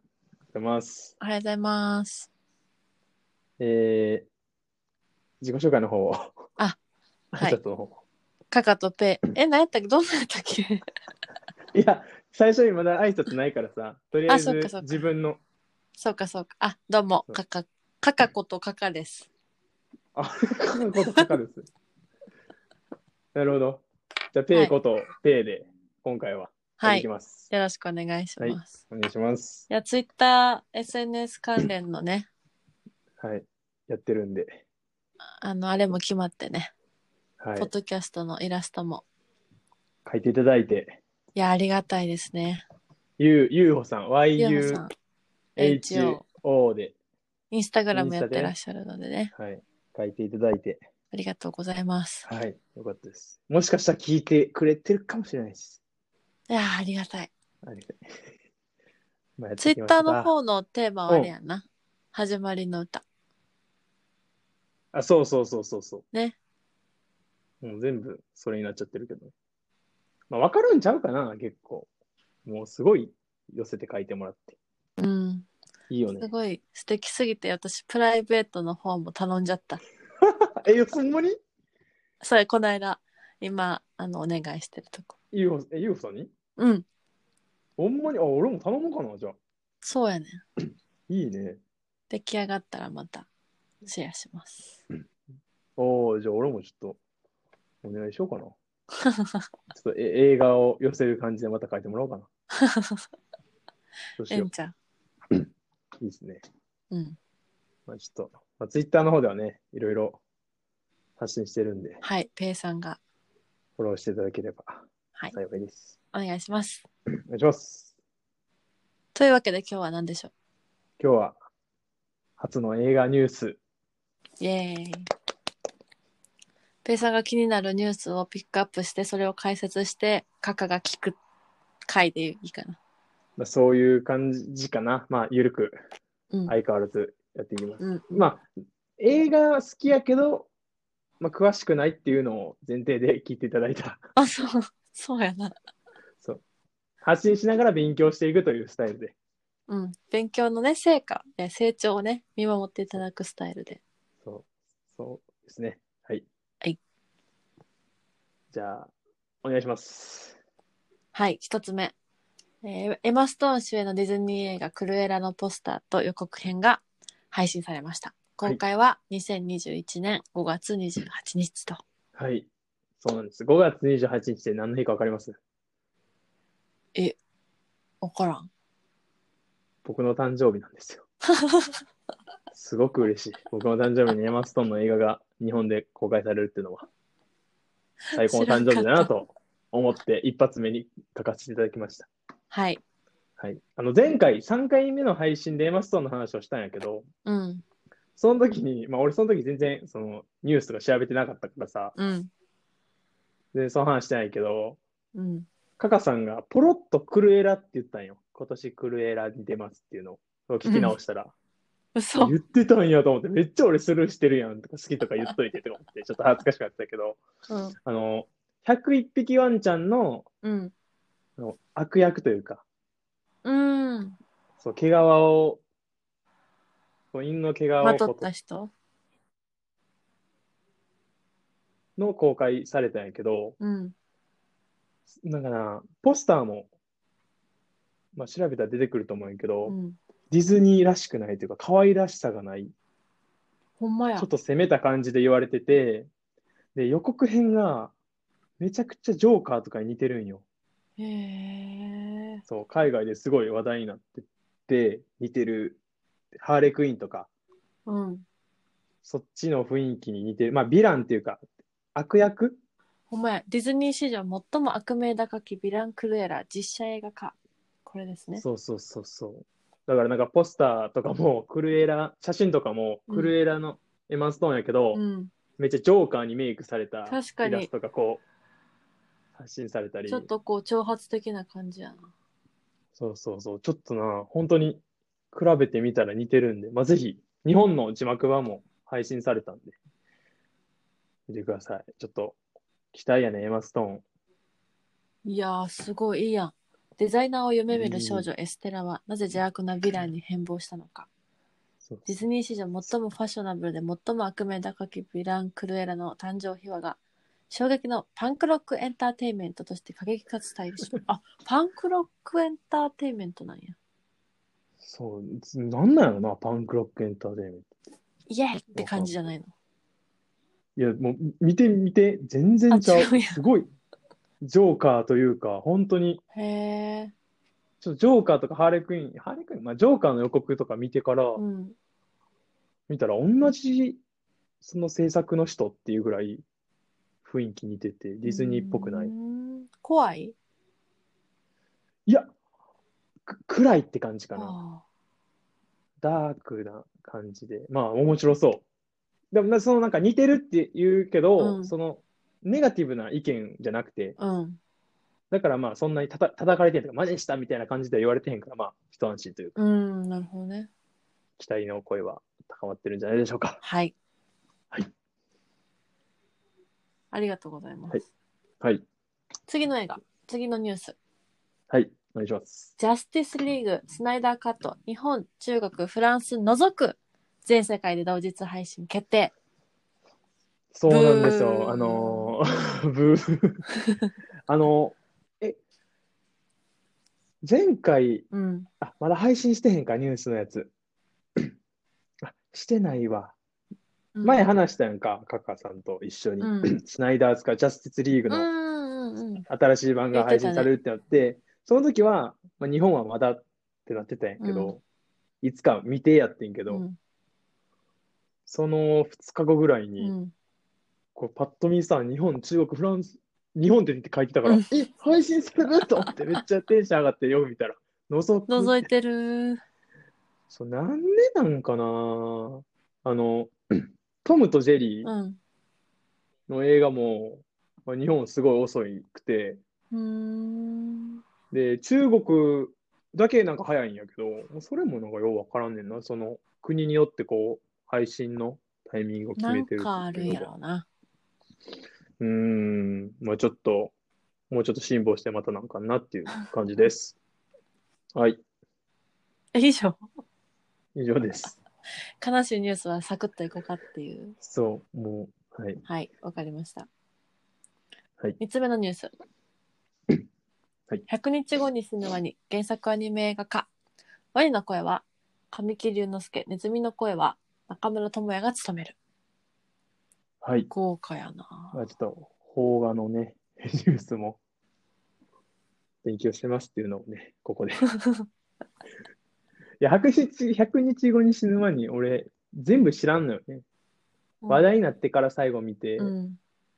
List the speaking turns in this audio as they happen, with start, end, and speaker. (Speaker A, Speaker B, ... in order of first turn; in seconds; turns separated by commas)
Speaker A: 0.5-1.2, Speaker B: 1.2-2.3, Speaker A: 3.6-4.3, Speaker A: 5.4-6.4, Speaker A: 7.3-8.0, Speaker B: 8.5-10.8, Speaker A: 11.7-15.4, Speaker B: 14.3-15.0, Speaker B: 16.0-19.3, Speaker A: 20.1-21.7, Speaker A: 23.4-27.5, Speaker B: 26.8-28.8, Speaker A: 28.4-29.7, Speaker B: 29.7-32.3, Speaker A: 33.2-34.6, Speaker B: 35.4-36.7, Speaker A: 37.4-37.7, Speaker B: 37.6-39.0, Speaker A: 40.0-41.0, Speaker B: 41.4-42.6, Speaker A: 43.2-44.9, Speaker B: 44.4-44.9, Speaker B: 45.6-46.2, Speaker A: 45.6-47.0, Speaker B: 47.5-49.3, Speaker A: 47.9-48.5, Speaker A: 49.4-50.9, Speaker B: 51.1-52.3, Speaker A: 52.3-55.8, Speaker B: 56.5-57.3, Speaker A: 57.6-58.0, Speaker A: 59.4-60.3, Speaker B: 59.6-63.0, Speaker A: 64.9-66.0, Speaker A: 67.6-69.3, Speaker A: 70.3-71.9, Speaker A: 72.5-74.6, Speaker B: 75.0-75.5, Speaker A: 75.9-76.3, Speaker B: 76.2-79.8, Speaker A: 80.2-81.4, Speaker B: 82.2-85.2, Speaker A: 85.3-86.3, Speaker B: 86.6-86.8, Speaker A: 87.8-89.4, Speaker B: 89.8-90.4, Speaker A: 91.1-91.6, Speaker B: 92.1-93.3, Speaker B: 93.8-94.8, Speaker A: 95.8-97.0, Speaker A: 97.8-98.6, Speaker B: 99.0-99.5, Speaker A: 99.7-102.3, Speaker B: 102.6-103.1, Speaker A: 104.2-104.5, Speaker B: 104.3-104.7, Speaker A: 106.0-106.4, Speaker B: 106.9-107.2, Speaker A: 107.9-110.2, Speaker A: 111.2-112.0, Speaker B: 112.0-113.0, Speaker A: 113.8-116.0, Speaker B: 116.1-116.8, Speaker A: 117.3-117.9, Speaker B: 119.2-120.3, Speaker A: 121.0-121.4, Speaker A: 122.4-123.6, Speaker B: 124.4-125.1, Speaker B: 126.8-131.2, Speaker B: 131.9-132.8, Speaker A: 133.4-135.8, Speaker A: 136.5-138.5, Speaker B: 137.8-138.3, Speaker A: 139.0-140.5, Speaker A: 141.2-144.0, Speaker B: 144.2-145.6, Speaker A: 147.0-149.2, Speaker B: 149.7-153.8, Speaker A: 154.2-156.2, Speaker A: 158.5-158.9, Speaker A: 159.4-160.4, Speaker B: 161.1-161.9, Speaker B: 162.6-171.8, Speaker A: 172.2-172.5, Speaker A: 173.0-175.4, Speaker B: 178.0-178.5, Speaker A: 179.8-181.1, Speaker B: 181.4-181.7, Speaker A: 182.5-186.9, Speaker B: 188.1-189.1, Speaker A: 188.1-192.1, Speaker B: 192.5-192.8, Speaker A: 193.4-197.1, Speaker B: 197.2-197.6, Speaker A: 198.2-202.0, Speaker B: 202.0-202.3, Speaker A: 203.5-204.8, Speaker B: 205.2-205.5, Speaker A: 205.8-211.3, Speaker B: 210.7-211.0, Speaker B: 211.9-212.3, Speaker A: 212.2-217.2, Speaker B: 217.5-217.8, Speaker A: 217.8-220.3, Speaker B: 220.4-220.7, Speaker A: 221.4-222.6, Speaker B: 223.4-224.2, Speaker A: 224.6-225.6, Speaker A: 227.1-228.3, Speaker B: 227.8-228.7, Speaker A: 232.0-233.6, Speaker B: 233.6-233.9, Speaker A: 235.2-236.7, Speaker A: 238.2-239.7, Speaker B: 239.7-240.0, Speaker A: 240.3-242.7, Speaker B: 243.8-244.3, Speaker A: 244.2-246.1, Speaker A: 246.8-247.9, Speaker A: 248.6-250.4, Speaker B: 251.0-252.4, Speaker A: 252.5-255.8, Speaker A: 256.4-257.3, Speaker B: 257.9-258.2, Speaker A: 259.0-261.4, Speaker A: 261.9-262.6, Speaker B: 263.1-267.4, Speaker B: 267.9-268.4, Speaker A: 268.4-275.0, Speaker B: 273.1-273.3, Speaker B: 274.9-275.3, Speaker A: 275.6-278.2, Speaker B: 277.1-277.7, Speaker A: 279.4-280.3, Speaker B: 280.1-282.1, Speaker A: 282.9-289.8, Speaker A: 291.3-292.4, Speaker A: 292.9-294.1, Speaker B: 295.2-301.1, Speaker A: 297.7-298.3, Speaker A: 301.8-302.2, Speaker B: 302.1-307.0, Speaker B: 307.5-313.8, Speaker A: 314.8-317.7, Speaker B: 318.3-319.5, Speaker A: 318.7-319.3, Speaker A: 320.8-323.7, Speaker B: 322.7-323.4, Speaker A: 324.4-326.2, Speaker B: 326.3-327.1, Speaker A: 327.8-331.4, Speaker B: 331.4-331.8, Speaker A: 332.9-334.0, Speaker A: 334.6-336.4, Speaker A: 337.2-339.1, Speaker B: 338.2-340.4, Speaker A: 342.1-342.3, Speaker A: 343.3-344.6, Speaker B: 344.4-344.8, Speaker A: 346.0-348.6, Speaker A: 349.3-354.2, Speaker B: 351.4-351.7, Speaker B: 354.2-354.6, Speaker A: 355.3-359.6, Speaker B: 359.6-360.7, Speaker A: 361.4-363.6, Speaker B: 363.6-363.9, Speaker B: 367.1-368.0, Speaker B: 369.5-371.0, Speaker A: 371.7-372.7, Speaker B: 372.8-379.3, Speaker A: 380.7-383.6, Speaker B: 380.9-382.4, Speaker A: 384.5-385.6, Speaker A: 387.4-388.3, Speaker B: 388.3-388.7, Speaker A: 388.8-390.7, Speaker A: 392.2-393.4, Speaker B: 394.1-394.5, Speaker A: 394.2-398.5, Speaker B: 396.4-396.8, Speaker B: 398.3-399.5, Speaker A: 399.5-404.8, Speaker B: 400.1-400.7, Speaker B: 404.4-404.8, Speaker A: 405.4-406.8, Speaker B: 406.7-407.0, Speaker A: 408.5-410.1, Speaker B: 410.0-410.3, Speaker A: 411.1-418.9, Speaker B: 414.4-414.8, Speaker B: 418.5-419.6, Speaker A: 420.5-425.1, Speaker B: 425.0-425.4, Speaker A: 426.5-429.6, Speaker B: 429.9-431.2, Speaker A: 431.5-440.5, Speaker B: 439.4-440.9, Speaker A: 442.2-443.9, Speaker A: 444.5-447.2, Speaker A: 448.1-448.4, Speaker B: 449.5-450.1, Speaker A: 450.9-451.6, Speaker B: 452.2-454.4, Speaker A: 454.4-455.8, Speaker B: 455.9-456.9, Speaker B: 458.4-459.1, Speaker B: 461.1-463.7, Speaker B: 464.3-469.0, Speaker A: 470.4-470.7, Speaker B: 470.7-471.8, Speaker A: 471.7-474.4, Speaker A: 476.0-477.9, Speaker B: 477.9-478.2, Speaker A: 479.8-483.6, Speaker B: 484.4-484.7, Speaker A: 484.5-486.1, Speaker B: 486.0-486.4